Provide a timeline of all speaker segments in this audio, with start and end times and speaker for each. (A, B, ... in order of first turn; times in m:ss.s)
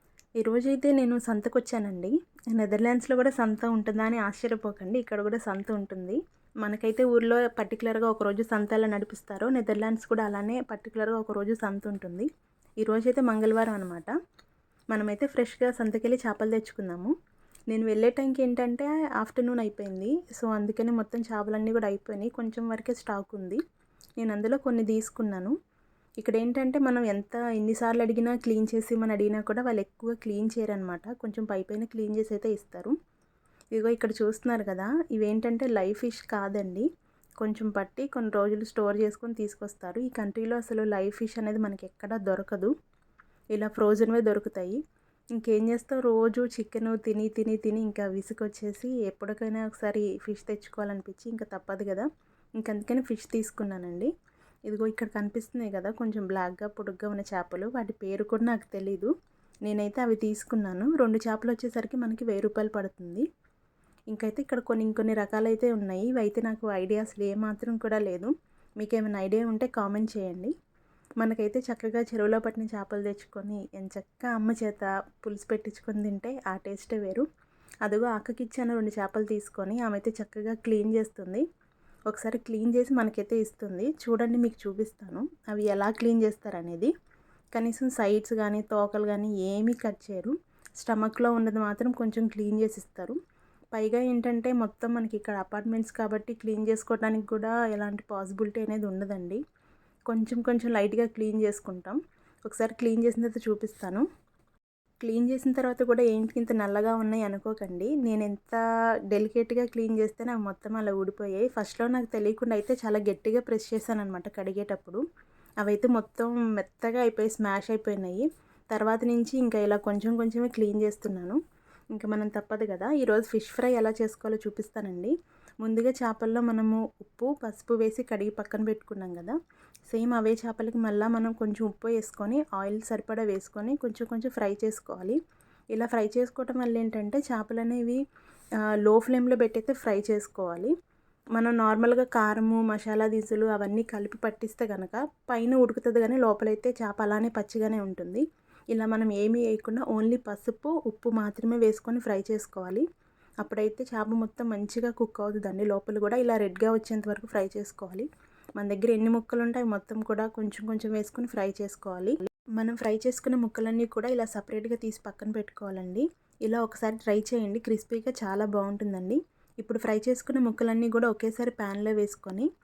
0:00.4-0:12.3 A
0:12.8-0:14.1 A
0:14.9-0:17.1 A
0:17.7-0:23.6 A
0:24.2-0:25.5 A
0:26.2-0:32.9 A
0:33.7-0:36.8 A
0:37.4-0:42.7 A
0:43.6-0:44.8 A
0:45.4-0:52.1 A
0:52.6-0:54.1 A
0:54.7-0:59.1 A
0:59.6-1:03.2 A
1:04.1-1:10.5 A
1:11.2-1:17.2 A
1:17.8-1:21.4 A
1:22.1-1:26.9 A
1:27.5-1:33.2 A
1:33.7-1:39.4 A
1:40.1-1:44.0 A
1:45.0-1:55.0 A
1:55.6-2:01.4 A
2:02.0-2:05.1 A
2:05.6-2:09.4 A
2:09.9-2:15.2 A
2:15.7-2:18.0 A
2:18.8-2:20.7 A
2:21.4-2:32.8 A
2:33.4-2:38.1 A
2:38.6-2:52.5 A